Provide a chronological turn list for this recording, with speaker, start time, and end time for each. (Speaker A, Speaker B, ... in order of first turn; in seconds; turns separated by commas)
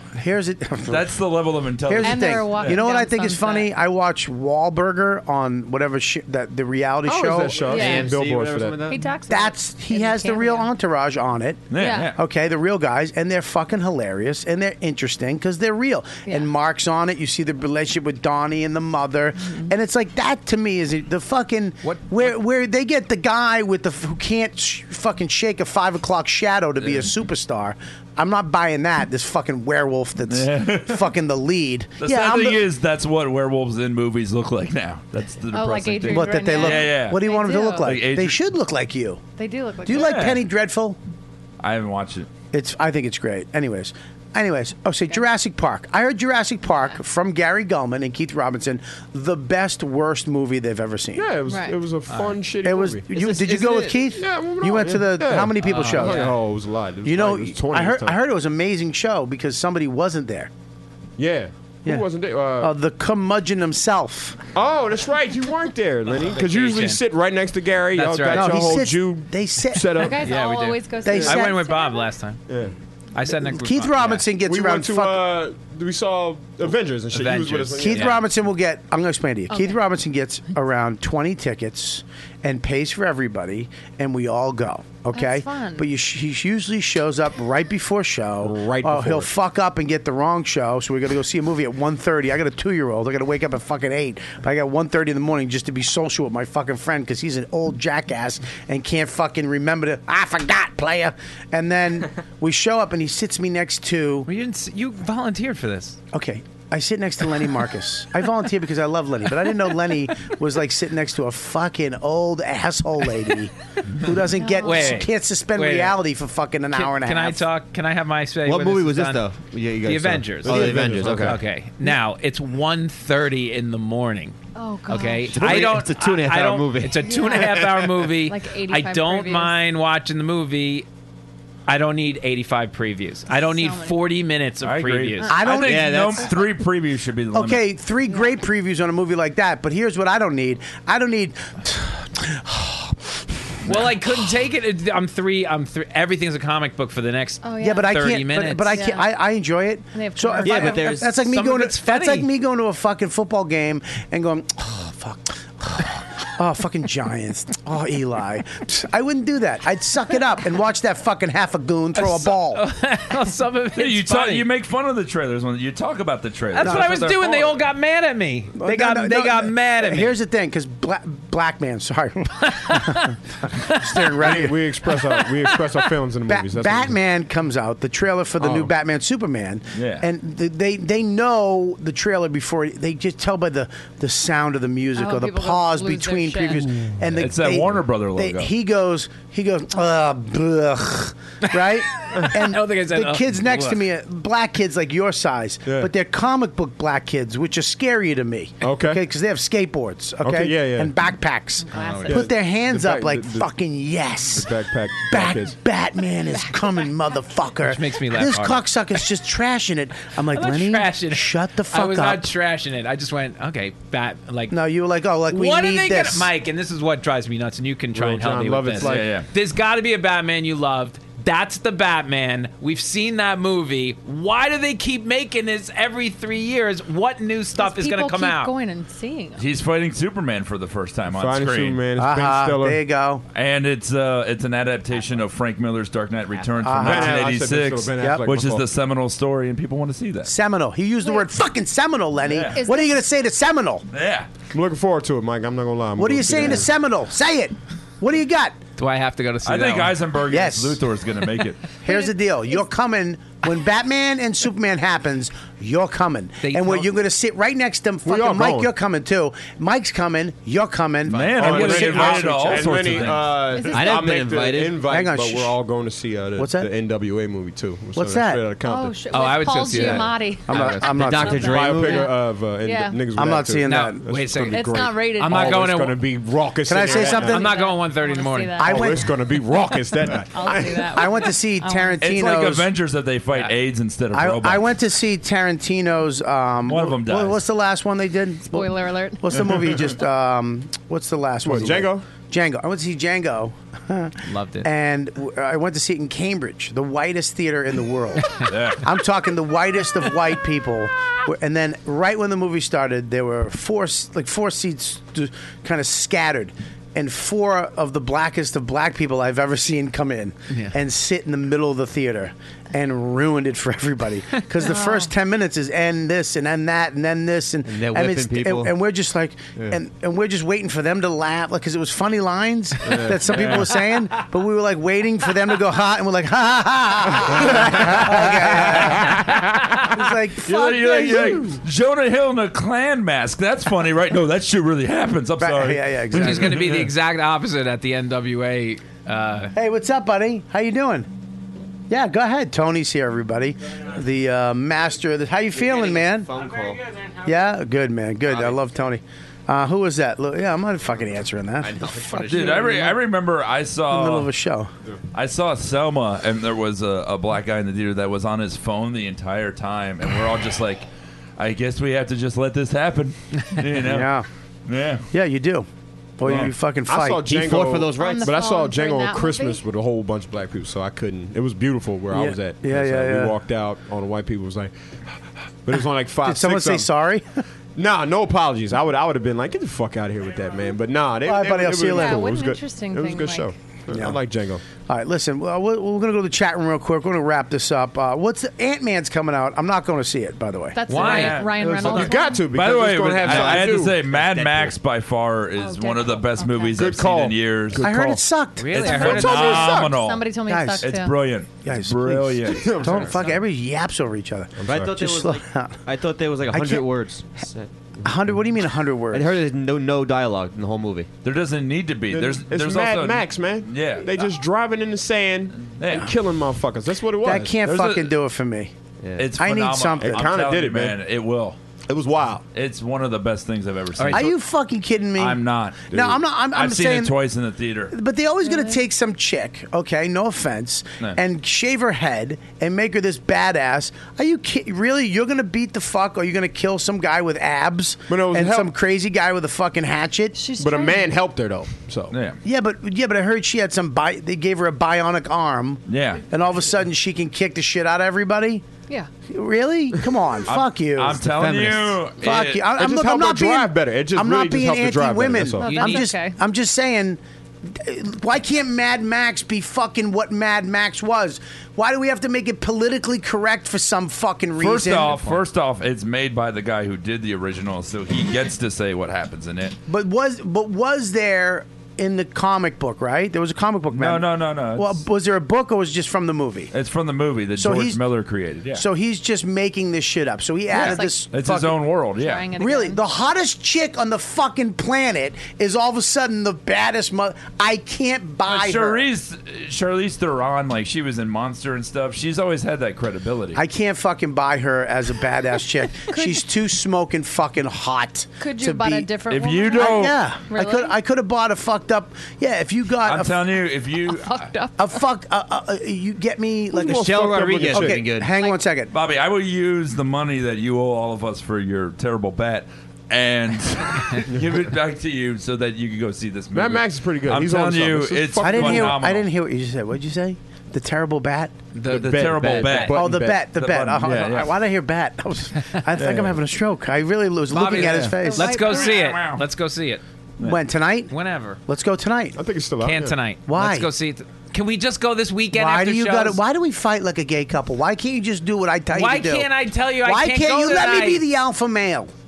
Speaker A: 0.2-1.1, Speaker B: 0.9-2.8, Speaker A: 1.9-7.7, Speaker C: 2.0-3.7, Speaker D: 7.0-8.9, Speaker E: 7.6-9.1, Speaker C: 7.6-8.1, Speaker C: 8.9-10.7, Speaker A: 9.3-32.6, Speaker B: 11.7-12.2, Speaker C: 11.8-12.1, Speaker F: 21.8-22.4, Speaker B: 30.3-31.1, Speaker B: 32.0-37.2, Speaker C: 35.5-37.9, Speaker A: 36.1-39.2, Speaker B: 37.8-38.4, Speaker C: 39.4-40.2, Speaker A: 39.9-41.0, Speaker B: 39.9-40.4, Speaker B: 41.6-42.3, Speaker A: 42.5-51.3, Speaker D: 51.1-53.0, Speaker C: 51.5-51.8, Speaker F: 52.1-52.4, Speaker A: 52.6-56.3, Speaker E: 53.1-54.0, Speaker D: 54.2-58.2, Speaker F: 55.6-56.4, Speaker A: 57.0-60.5, Speaker D: 61.2-62.7, Speaker A: 62.6-64.4, Speaker D: 64.5-70.3, Speaker F: 66.1-67.0, Speaker F: 67.9-68.8, Speaker A: 68.3-70.1, Speaker C: 70.0-72.1, Speaker F: 70.2-72.4, Speaker A: 71.0-71.6, Speaker D: 72.5-72.7, Speaker F: 73.1-74.3, Speaker A: 73.3-75.3, Speaker D: 74.5-78.1, Speaker F: 77.1-78.2, Speaker A: 77.8-104.3, Speaker C: 79.5-79.8, Speaker C: 85.1-85.9, Speaker D: 88.4-89.3, Speaker F: 104.3-106.0, Speaker A: 106.1-117.5, Speaker C: 114.3-115.1, Speaker F: 114.6-116.0, Speaker F: 116.7-130.9, Speaker E: 118.5-121.4, Speaker D: 120.4-121.4, Speaker C: 124.5-125.5, Speaker E: 125.3-128.0, Speaker C: 127.0-127.5, Speaker C: 128.3-129.6, Speaker F: 131.7-135.4, Speaker C: 133.3-134.0, Speaker B: 134.6-137.7, Speaker A: 135.3-136.3, Speaker E: 135.6-136.3, Speaker C: 136.2-136.5, Speaker A: 137.3-143.2, Speaker F: 143.7-148.8, Speaker C: 147.4-147.9, Speaker A: 147.6-162.7, Speaker C: 148.7-149.1, Speaker C: 149.9-151.0, Speaker E: 150.4-151.2, Speaker F: 151.1-152.3, Speaker F: 161.9-164.5, Speaker B: 163.8-167.4, Speaker F: 166.5-170.2, Speaker A: 166.6-167.3, Speaker A: 168.6-174.6, Speaker D: 174.2-177.0, Speaker A: 176.3-204.5, Speaker D: 178.4-178.7, Speaker B: 179.7-180.1, Speaker C: 184.9-186.7, Speaker B: 187.2-188.5, Speaker F: 191.5-193.8, Speaker D: 195.7-195.9, Speaker D: 198.6-199.0, Speaker D: 200.2-200.9, Speaker C: 201.7-202.2, Speaker F: 201.7-202.3, Speaker D: 202.1-203.5, Speaker D: 204.3-205.6, Speaker A: 205.1-212.3, Speaker F: 207.6-208.7, Speaker F: 210.3-214.6, Speaker A: 214.5-216.3, Speaker F: 215.3-228.5, Speaker D: 217.9-219.1, Speaker B: 218.8-219.3, Speaker C: 227.6-229.4, Speaker B: 229.4-231.8, Speaker D: 231.1-232.8, Speaker A: 232.0-233.2, Speaker B: 233.3-240.3, Speaker A: 236.6-237.3, Speaker D: 236.8-238.7, Speaker A: 238.0-238.2, Speaker A: 240.3-243.8, Speaker B: 242.2-242.6, Speaker C: 242.6-243.0, Speaker B: 243.9-244.3, Speaker D: 244.5-246.7, Speaker A: 246.0-248.6, Speaker F: 248.8-250.0, Speaker B: 249.4-251.6, Speaker A: 250.3-250.8, Speaker A: 251.8-262.9, Speaker C: 251.9-252.6, Speaker F: 256.4-256.9, Speaker D: 258.1-258.7, Speaker B: 261.1-263.4, Speaker F: 261.1-261.9, Speaker D: 261.4-269.0, Speaker E: 263.7-264.8, Speaker A: 264.8-265.6, Speaker A: 266.4-266.7, Speaker A: 267.9-268.4, Speaker C: 268.6-273.0, Speaker F: 269.1-271.0, Speaker D: 269.6-270.1, Speaker A: 270.5-271.7, Speaker E: 270.9-272.1, Speaker D: 271.4-277.4, Speaker A: 273.2-274.1, Speaker F: 273.6-276.0, Speaker C: 274.5-275.6, Speaker A: 276.7-277.5, Speaker C: 276.9-278.8, Speaker F: 277.1-278.8, Speaker A: 278.6-279.1, Speaker D: 278.6-281.0, Speaker C: 280.3-282.1, Speaker A: 280.9-282.7, Speaker B: 282.0-284.7, Speaker A: 284.1-331.6, Speaker B: 286.6-287.4, Speaker C: 288.5-289.2, Speaker D: 291.4-292.1, Speaker F: 294.2-294.7, Speaker B: 298.4-298.8, Speaker F: 310.5-310.8, Speaker C: 314.6-315.1, Speaker E: 317.7-318.7, Speaker D: 322.9-323.6, Speaker B: 323.3-323.7, Speaker B: 328.6-329.4, Speaker B: 330.4-336.9, Speaker A: 335.4-336.7, Speaker F: 336.1-339.5, Speaker A: 339.6-341.1, Speaker A: 341.9-346.3, Speaker E: 345.6-346.9, Speaker A: 347.2-353.0, Speaker E: 348.3-348.6, Speaker E: 351.6-352.9, Speaker B: 352.3-354.3, Speaker A: 353.9-354.7, Speaker B: 355.1-360.9, Speaker B: 361.4-364.1, Speaker A: 363.8-364.3, Speaker B: 364.7-365.1, Speaker A: 365.1-365.7, Speaker A: 366.2-367.4, Speaker D: 366.2-374.7, Speaker E: 367.3-368.3, Speaker C: 368.0-369.6, Speaker A: 372.1-373.4, Speaker D: 375.6-376.9, Speaker A: 376.2-377.4, Speaker D: 377.8-384.6, Speaker A: 381.2-382.3, Speaker C: 381.9-383.5, Speaker A: 383.9-384.2, Speaker A: 384.9-390.8, Speaker C: 390.8-392.4, Speaker F: 390.9-391.5, Speaker B: 390.9-397.9, Speaker D: 391.6-394.2, Speaker E: 393.2-394.7, Speaker C: 395.6-396.8, Speaker D: 396.8-398.2, Speaker A: 397.8-399.5, Speaker F: 398.6-399.8, Speaker B: 398.7-400.3, Speaker D: 398.8-399.9, Speaker C: 399.7-401.1, Speaker A: 400.5-401.0, Speaker B: 400.8-403.1, Speaker A: 401.6-405.8, Speaker D: 402.5-403.2, Speaker D: 404.6-405.0, Speaker E: 404.7-408.4, Speaker A: 406.5-406.9, Speaker A: 408.0-409.4, Speaker E: 409.1-411.1, Speaker B: 411.2-414.1, Speaker D: 412.1-417.6, Speaker B: 415.8-416.1, Speaker A: 417.2-418.7, Speaker B: 417.6-418.1, Speaker E: 419.0-419.3, Speaker B: 419.2-421.6, Speaker A: 419.4-420.3, Speaker D: 420.0-421.0, Speaker D: 421.9-422.4, Speaker B: 422.5-424.3, Speaker F: 424.0-424.3, Speaker A: 424.1-427.1, Speaker B: 425.2-425.9, Speaker D: 425.9-426.2, Speaker B: 426.5-427.9, Speaker A: 427.9-440.4, Speaker C: 428.4-428.8, Speaker D: 438.1-438.7, Speaker C: 440.3-441.1, Speaker D: 440.6-442.1, Speaker B: 442.1-442.4, Speaker A: 442.4-448.6, Speaker B: 445.9-446.2, Speaker A: 449.3-451.4, Speaker B: 450.5-452.7, Speaker E: 451.4-451.8, Speaker A: 452.2-465.4, Speaker D: 452.8-455.8, Speaker C: 455.6-456.4, Speaker F: 455.6-456.1, Speaker B: 464.6-469.8, Speaker A: 469.9-476.7, Speaker B: 473.9-475.0, Speaker B: 476.7-478.9, Speaker A: 477.6-478.0, Speaker A: 478.7-481.8, Speaker C: 480.7-481.2, Speaker B: 480.7-482.5, Speaker C: 482.2-483.0, Speaker A: 482.6-489.1, Speaker B: 488.5-493.6, Speaker A: 493.6-499.1, Speaker C: 496.1-496.4, Speaker C: 498.4-501.0, Speaker B: 499.3-500.2, Speaker A: 499.7-503.4, Speaker B: 503.0-504.5, Speaker C: 504.1-505.0, Speaker A: 504.8-508.9, Speaker D: 506.7-508.1, Speaker E: 506.9-508.3, Speaker B: 508.9-519.3, Speaker D: 514.3-514.6, Speaker D: 516.5-519.0, Speaker A: 518.4-521.6, Speaker F: 521.7-523.0, Speaker D: 521.9-523.5, Speaker B: 521.9-524.6, Speaker A: 522.9-528.7, Speaker D: 526.0-526.3, Speaker F: 527.5-530.0, Speaker C: 528.2-529.0, Speaker B: 528.7-529.4, Speaker A: 530.4-531.1, Speaker F: 531.1-531.6, Speaker A: 531.7-532.4, Speaker D: 532.4-533.2, Speaker F: 532.8-536.4, Speaker A: 533.5-533.9, Speaker A: 535.5-542.1, Speaker F: 538.9-541.3